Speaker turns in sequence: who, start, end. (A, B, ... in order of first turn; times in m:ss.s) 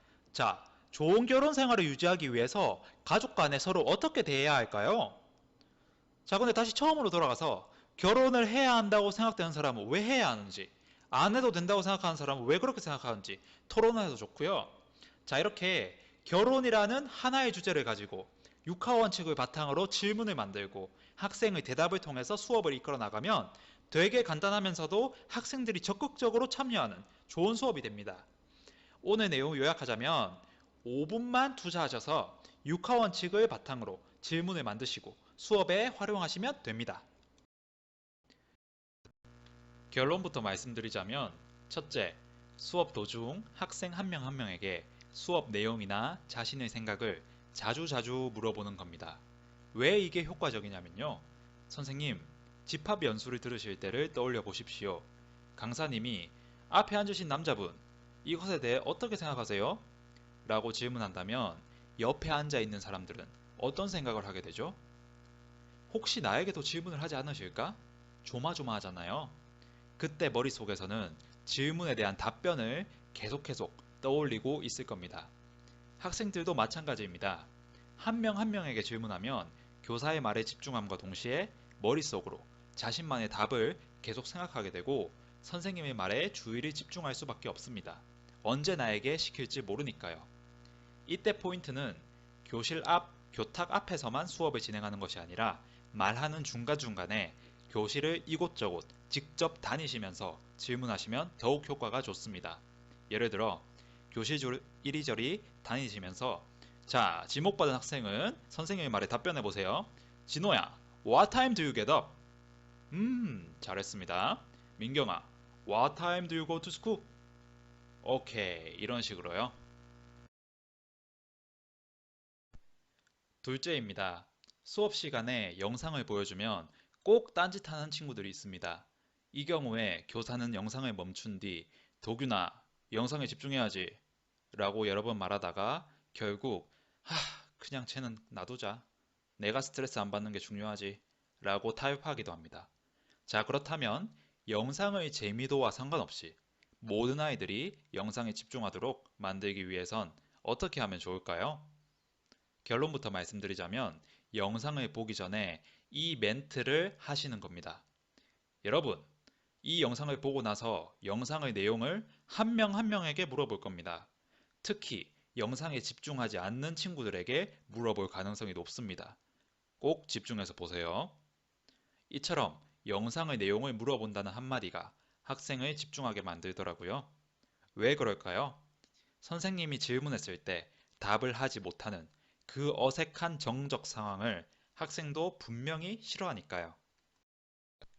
0:00.3-0:05.2 A
0:06.2-0:28.3 A
0:29.0-0:37.1 A
0:39.9-0:59.9 A
1:00.4-1:04.8 A
1:05.9-1:09.4 A
1:10.0-1:15.3 A
1:16.0-1:30.3 A
1:31.0-1:52.2 A
1:52.9-1:57.1 A
1:58.0-1:59.6 A
2:03.4-2:14.0 A
2:14.5-2:18.8 A
2:19.4-2:22.7 A
2:23.3-2:31.7 A
2:32.6-2:37.8 A
2:38.6-2:39.1 A
2:39.6-2:44.1 A
2:44.6-2:49.2 A
2:49.8-2:51.2 A
2:52.1-2:57.1 A
2:57.7-2:58.6 A
2:59.2-3:06.8 A